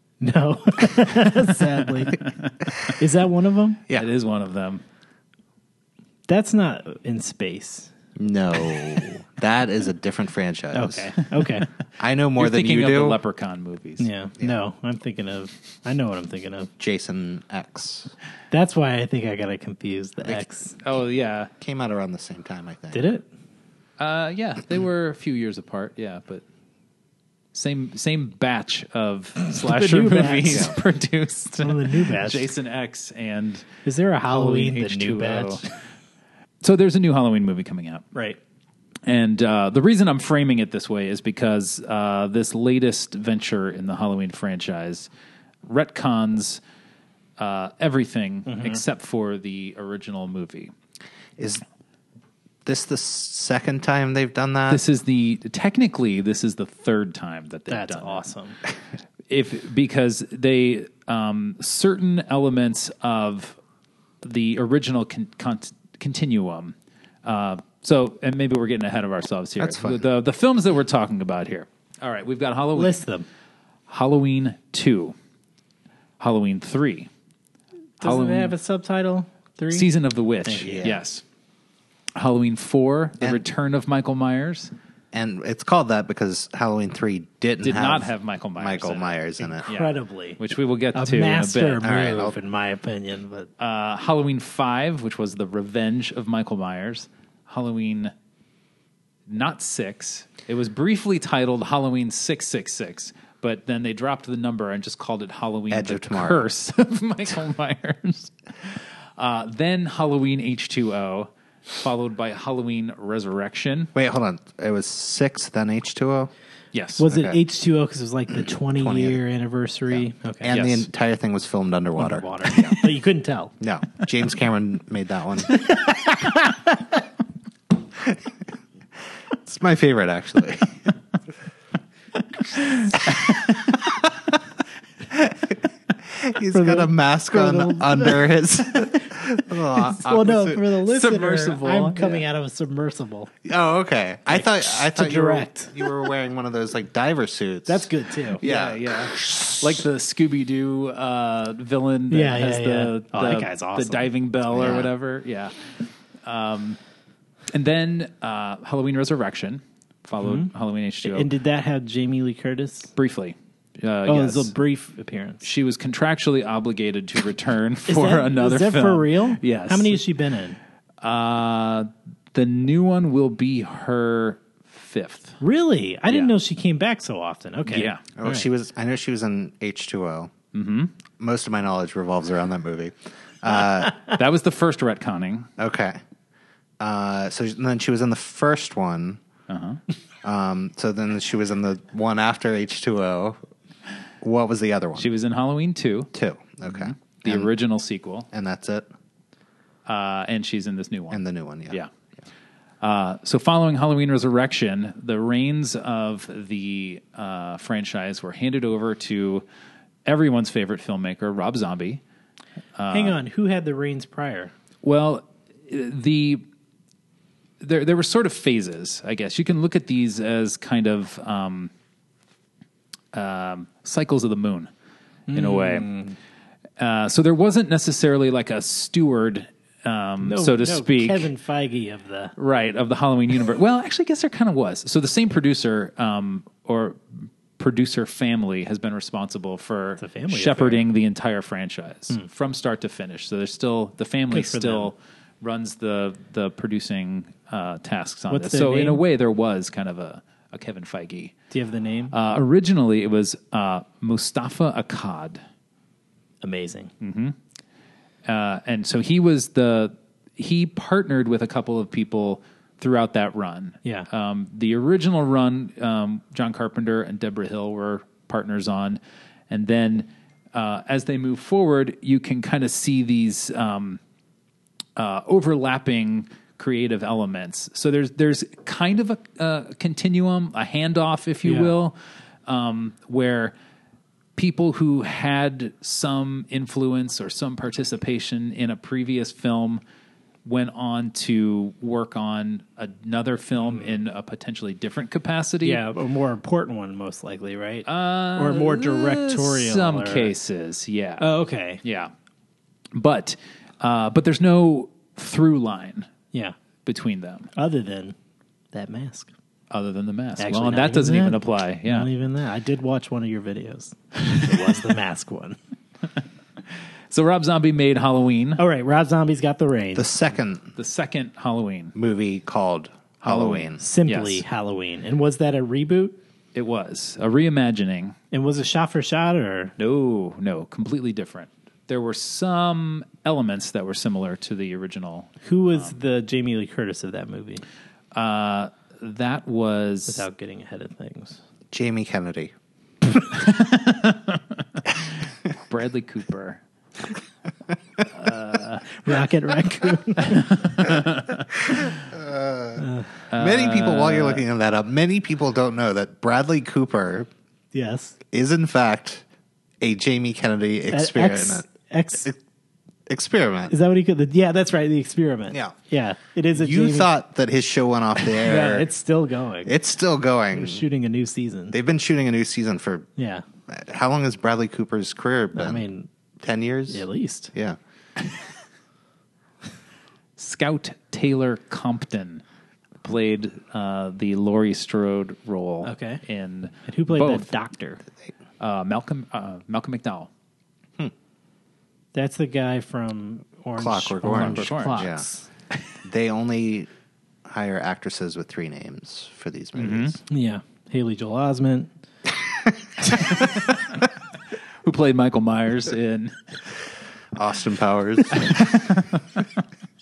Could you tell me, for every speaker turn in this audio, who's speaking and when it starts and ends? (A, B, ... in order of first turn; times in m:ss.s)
0:00.2-0:02.2 A
0:02.2-0:02.5 B
0:02.9-0:03.8 A
0:03.9-0:04.8 B
0:06.3-0:07.9 A
0:08.2-0:11.1 C
0:10.7-0:11.7 A
0:12.0-0:13.2 C
0:12.4-0:14.1 B
0:14.0-0:16.7 A
0:16.8-0:18.1 C
0:18.5-0:20.8 A
0:20.2-0:21.5 B
0:21.6-0:23.1 C
0:22.9-0:23.3 A
0:24.0-0:26.4 B
0:27.5-0:33.7 B
0:29.6-0:30.8 A
0:31.6-0:32.5 A
0:33.8-0:35.7 A
0:34.3-0:35.7 B
0:36.6-0:38.0 B
0:39.0-0:45.1 B
0:45.7-0:46.6 B
0:47.4-0:50.7 B
0:48.5-0:48.8 A
0:51.4-0:51.6 C
0:52.6-0:54.8 C
0:54.7-0:58.3 B
0:57.7-0:58.6 A
0:59.3-1:03.6 B
1:04.2-1:13.0 B
1:09.6-1:10.1 C
1:12.8-1:13.3 A
1:13.9-1:15.2 B
1:16.2-1:17.1 B
1:18.0-1:18.5 B
1:18.0-1:19.9 A
1:19.7-1:21.2 B
1:20.4-1:20.9 A
1:20.6-1:21.0 C
1:22.2-1:24.7 B
1:25.1-1:29.7 C
1:27.6-1:32.0 B
1:29.6-1:30.4 A
1:31.0-1:33.5 A
1:31.8-1:32.4 C
1:33.6-1:38.1 B
1:39.3-1:53.9 B
1:45.7-1:46.5 C
1:54.0-1:56.3 C
1:56.7-1:57.0 B
1:57.0-2:00.7 A
1:57.0-1:57.4 C
1:58.3-1:59.2 C
1:59.9-2:02.8 C
2:00.5-2:00.8 B
2:02.0-2:03.5 A
2:03.6-2:05.6 C
2:09.4-2:10.8 C
2:12.7-2:13.5 B
2:15.1-2:20.7 C
2:16.5-2:18.3 A
2:19.7-2:23.3 A
2:20.8-2:22.2 B
2:23.4-2:29.8 C
2:24.3-2:25.9 A
2:27.7-2:28.4 A
2:28.4-2:35.7 B
2:32.1-2:34.1 A
2:34.5-2:34.9 C
2:36.2-2:36.8 B
2:37.5-2:41.3 B
2:40.2-2:40.5 A
2:41.0-2:42.9 A
2:43.0-2:44.5 B
2:44.1-2:45.5 A
2:45.4-2:50.0 B
2:47.8-2:50.6 A
2:51.0-2:55.4 B
2:55.4-2:58.5 A
2:56.1-2:56.3 B
2:57.7-2:58.0 B
2:58.2-3:00.3 C
3:00.5-3:00.9 B
3:01.2-3:04.2 C
3:04.0-3:05.5 B
3:05.6-3:06.0 C
3:06.8-3:09.2 C
3:09.5-3:09.8 B
3:10.2-3:13.4 C
3:14.2-3:15.1 C
3:15.0-3:16.1 B
3:16.1-3:17.5 C
3:16.6-3:18.3 B
3:18.3-3:18.9 C
3:19.9-3:21.9 B
3:21.1-3:21.8 C
3:22.8-3:29.4 B
3:30.1-3:32.0 B
3:32.8-3:33.2 B
3:32.9-3:34.5 A
3:34.8-3:36.4 B
3:37.6-3:41.7 B
3:43.1-3:44.7 B
3:45.3-3:46.2 A
3:45.3-3:46.0 B
3:46.8-3:51.3 B
3:50.2-3:52.3 A
3:52.4-4:11.4 B
4:00.0-4:00.9 A
4:04.3-4:04.9 A
4:08.3-4:09.0 A
4:11.5-4:12.2 A
4:12.1-4:15.4 B
4:16.4-4:16.9 A
4:17.0-4:17.4 B
4:18.2-4:34.0 B
4:35.0-4:43.5 B
4:41.4-4:41.7 A
4:44.4-4:49.8 B
4:50.4-4:55.8 B
4:53.6-4:54.0 A
4:55.6-5:00.3 A
4:57.9-5:02.1 B
5:01.2-5:01.8 A
5:02.9-5:06.1 B
5:06.8-5:07.5 B
5:07.6-5:08.2 A
5:08.7-5:09.3 A
5:09.7-5:12.1 B
5:10.4-5:15.6 A
5:17.1-5:18.6 B
5:18.6-5:20.1 A
5:20.0-5:20.7 C
5:20.8-5:21.9 B
5:22.0-5:23.8 C
5:23.2-5:24.4 B
5:23.8-5:26.2 A
5:26.6-5:28.2 B
5:28.3-5:29.8 A
5:29.8-5:36.0 B
5:35.4-5:37.6 A
5:38.1-5:40.3 B
5:40.1-5:41.4 A
5:41.7-5:42.5 C
5:43.3-5:46.6 B
5:48.1-5:49.0 B
5:49.0-5:50.6 A
5:50.2-5:51.9 B
5:51.8-5:57.3 C
5:52.8-5:53.1 A
5:53.3-5:54.4 B
5:57.7-5:58.2 A
5:58.3-5:59.2 C
5:59.8-6:01.7 C
6:00.9-6:02.3 A
6:03.1-6:03.7 C
6:03.7-6:07.1 A
6:05.5-6:05.8 C
6:06.5-6:08.9 C
6:08.4-6:09.7 A
6:09.7-6:10.9 C
6:10.5-6:11.8 A
6:11.7-6:13.1 C
6:13.2-6:13.4 A
6:13.7-6:15.8 C
6:15.5-6:16.1 A
6:16.4-6:17.8 C
6:16.9-6:17.5 A
6:20.4-6:22.4 B
6:23.0-6:27.5 B
6:25.8-6:26.2 A
6:26.9-6:28.0 A
6:28.6-6:30.3 B
6:32.1-6:35.5 A
6:33.8-6:35.3 C
6:34.2-6:35.1 B
6:36.0-6:36.9 C
6:37.5-6:40.2 C
6:39.8-6:40.2 B
6:40.3-6:41.9 A
6:43.4-6:43.7 B
6:44.8-6:46.4 B
6:47.3-6:48.6 C
6:48.4-6:49.2 B